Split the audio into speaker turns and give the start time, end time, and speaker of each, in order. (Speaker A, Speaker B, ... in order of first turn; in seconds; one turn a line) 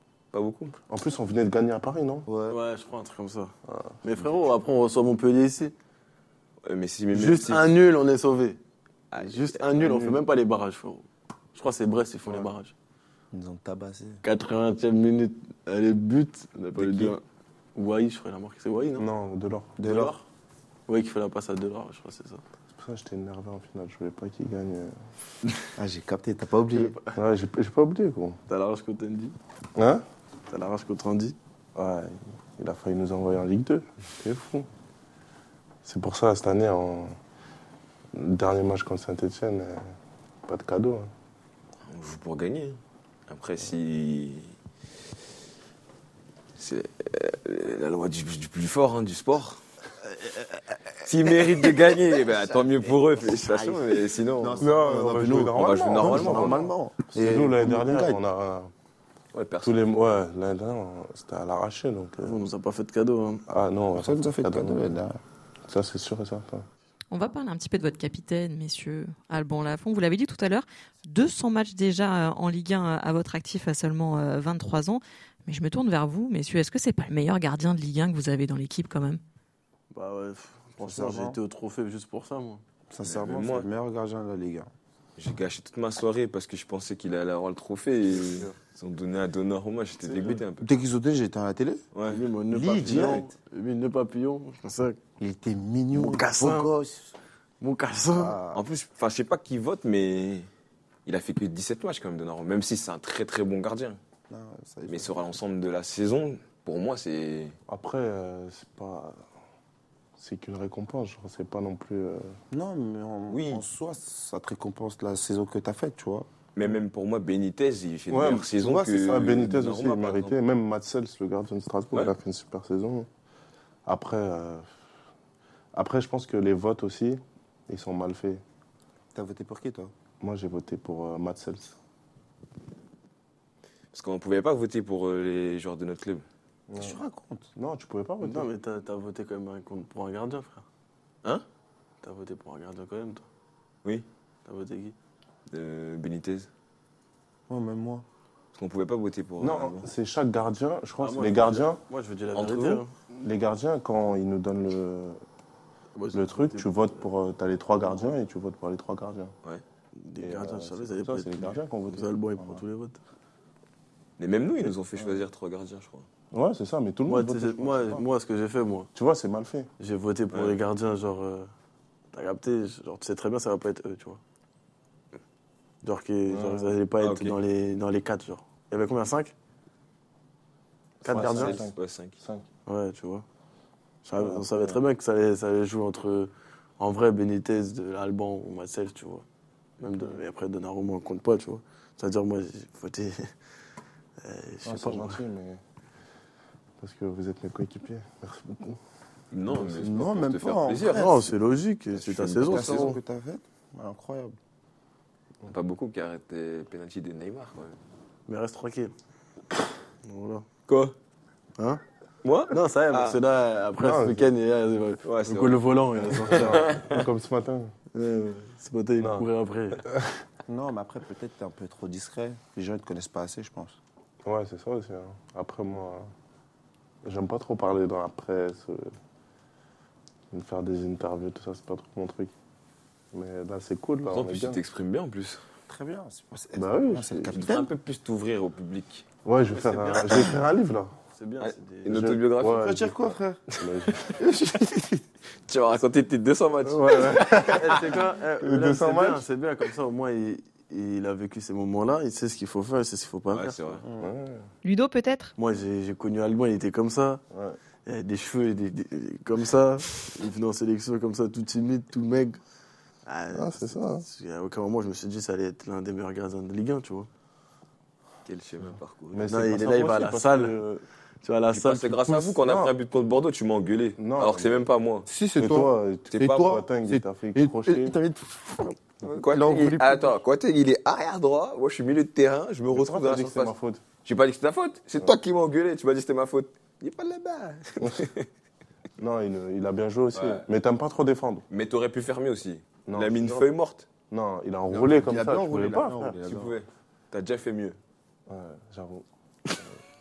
Speaker A: 0.3-0.8
Speaker B: 0.9-2.3
Speaker C: 2.3-2.6
Speaker D: 2.5-3.5
Speaker B: 3.7-4.0
Speaker D: 4.0-5.7
Speaker A: 6.6-7.7
Speaker D: 7.1-8.6
Speaker A: 9.1-9.9
Speaker D: 9.2-12.7
Speaker B: 9.8-10.2
Speaker B: 12.3-12.5
Speaker C: 13.3-14.2
Speaker D: 14.2-17.2
Speaker B: 16.8-17.2
Speaker D: 17.8-19.1
Speaker B: 19.0-19.9
Speaker C: 19.8-20.1
Speaker D: 19.8-20.2
Speaker D: 20.9-22.4
Speaker B: 22.7-24.9
Speaker C: 25.8-26.9
Speaker D: 26.7-27.2
Speaker B: 27.1-28.4
Speaker D: 28.5-29.4
Speaker B: 29.8-30.0
Speaker D: 30.5-31.4
Speaker B: 31.8-34.7
Speaker B: 35.9-37.2
Speaker B: 38.1-39.9
Speaker B: 40.5-41.1
Speaker A: 41.9-44.5
Speaker A: 46.6-49.6
Speaker A: 51.0-54.7
Speaker C: 51.9-58.2
Speaker B: 54.6-58.7
Speaker A: 55.6-56.6
Speaker A: 59.3-59.8
Speaker B: 59.6-62.4
Speaker D: 62.2-63.4
Speaker B: 63.5-64.8
Speaker C: 64.0-65.2
Speaker B: 65.7-66.7
Speaker E: 67.1-79.2
Speaker D: 79.9-82.6
Speaker C: 80.8-81.4
Speaker C: 82.9-84.7
Speaker A: 83.0-83.7
Speaker A: 85.2-90.7
Speaker D: 90.0-90.4
Speaker C: 90.6-91.8
Speaker A: 91.9-92.2
Speaker D: 92.1-95.0
Speaker C: 92.5-93.3
Speaker B: 92.5-93.3
Speaker C: 95.2-97.1
Speaker D: 95.9-96.7
Speaker D: 97.6-98.4
Speaker C: 98.1-98.7
Speaker A: 98.5-100.5
Speaker A: 101.1-104.0
Speaker C: 104.3-105.1
Speaker A: 104.9-107.5
Speaker B: 107.7-109.2
Speaker B: 110.2-112.4
Speaker C: 112.5-116.3
Speaker A: 113.3-113.6
Speaker A: 116.6-120.4
Speaker B: 118.1-123.1
Speaker C: 118.6-119.2
Speaker B: 123.9-124.7
Speaker B: 125.8-128.4
Speaker C: 129.1-129.9
Speaker B: 130.2-131.8
Speaker A: 133.9-136.2
Speaker B: 136.7-137.0
Speaker C: 136.7-137.5
Speaker B: 137.6-138.5
Speaker D: 138.2-140.7
Speaker D: 142.0-143.3
Speaker D: 144.5-144.9
Speaker A: 145.5-146.5
Speaker C: 147.5-148.1
Speaker A: 148.5-149.9
Speaker B: 149.4-151.8
Speaker D: 151.0-152.9
Speaker A: 152.3-152.8
Speaker B: 153.1-155.2
Speaker D: 155.9-156.9
Speaker B: 156.1-159.3
Speaker D: 160.0-163.0
Speaker B: 160.2-162.6
Speaker A: 164.2-166.1
Speaker B: 166.3-168.1
Speaker D: 167.1-168.9
Speaker B: 168.9-169.7
Speaker D: 169.8-171.5
Speaker A: 170.3-170.6
Speaker D: 172.1-174.2
Speaker D: 175.8-179.3
Speaker B: 176.3-176.8
Speaker A: 177.0-177.4
Speaker D: 181.0-181.7
Speaker B: 181.1-182.5
Speaker A: 181.3-182.2
Speaker D: 182.7-183.2
Speaker D: 184.0-189.2
Speaker B: 184.2-184.8
Speaker D: 189.8-193.3
Speaker D: 194.2-195.2
Speaker B: 194.7-195.6
Speaker B: 196.8-198.8
Speaker A: 199.3-201.3
Speaker B: 199.5-200.0
Speaker C: 199.7-201.2
Speaker D: 200.9-202.9
Speaker A: 201.9-203.0
Speaker C: 202.4-204.3
Speaker A: 205.5-207.8
Speaker D: 208.3-208.9
Speaker D: 210.0-210.5
Speaker A: 210.7-210.9
Speaker A: 212.2-213.2
Speaker D: 212.5-217.0
Speaker B: 213.8-214.3
Speaker A: 215.0-215.6
Speaker B: 216.0-217.7
Speaker A: 216.3-216.8
Speaker D: 217.9-219.8
Speaker B: 219.0-219.3
Speaker B: 219.9-220.1
Speaker C: 220.5-223.8
Speaker B: 224.2-226.1
Speaker B: 227.1-228.9
Speaker B: 230.3-232.3
Speaker B: 233.1-234.6
Speaker A: 234.1-235.4
Speaker C: 235.7-237.7
Speaker B: 236.6-237.3
Speaker A: 237.3-239.1
Speaker B: 239.2-241.0
Speaker D: 239.5-240.4
Speaker D: 241.1-242.0
Speaker A: 241.4-242.8
Speaker B: 241.9-244.2
Speaker C: 242.4-243.4
Speaker A: 243.5-244.2
Speaker A: 245.5-247.7
Speaker B: 246.7-249.2
Speaker D: 247.5-253.6
Speaker A: 253.3-253.8
Speaker C: 253.8-254.1
Speaker B: 254.0-254.5
Speaker E: 254.6-255.3
Speaker D: 255.4-257.2
Speaker B: 257.3-257.6
Speaker D: 257.9-262.4
Speaker D: 263.1-267.1
Speaker B: 263.3-264.1
Speaker A: 268.3-269.3
Speaker B: 269.1-270.9
Speaker D: 269.3-270.6
Speaker D: 271.2-272.3
Speaker A: 271.5-275.1
Speaker B: 272.4-272.7
Speaker B: 274.0-274.7
Speaker C: 275.1-280.2
Speaker B: 275.4-278.0
Speaker A: 276.1-276.6
Speaker A: 279.0-288.3
Speaker B: 282.7-283.8
Speaker B: 289.0-291.5
Speaker A: 290.1-290.5
Speaker A: 291.5-293.9
Speaker B: 292.9-293.5
Speaker B: 294.1-296.2
Speaker C: 294.7-296.6
Speaker A: 296.2-297.8
Speaker B: 298.3-299.1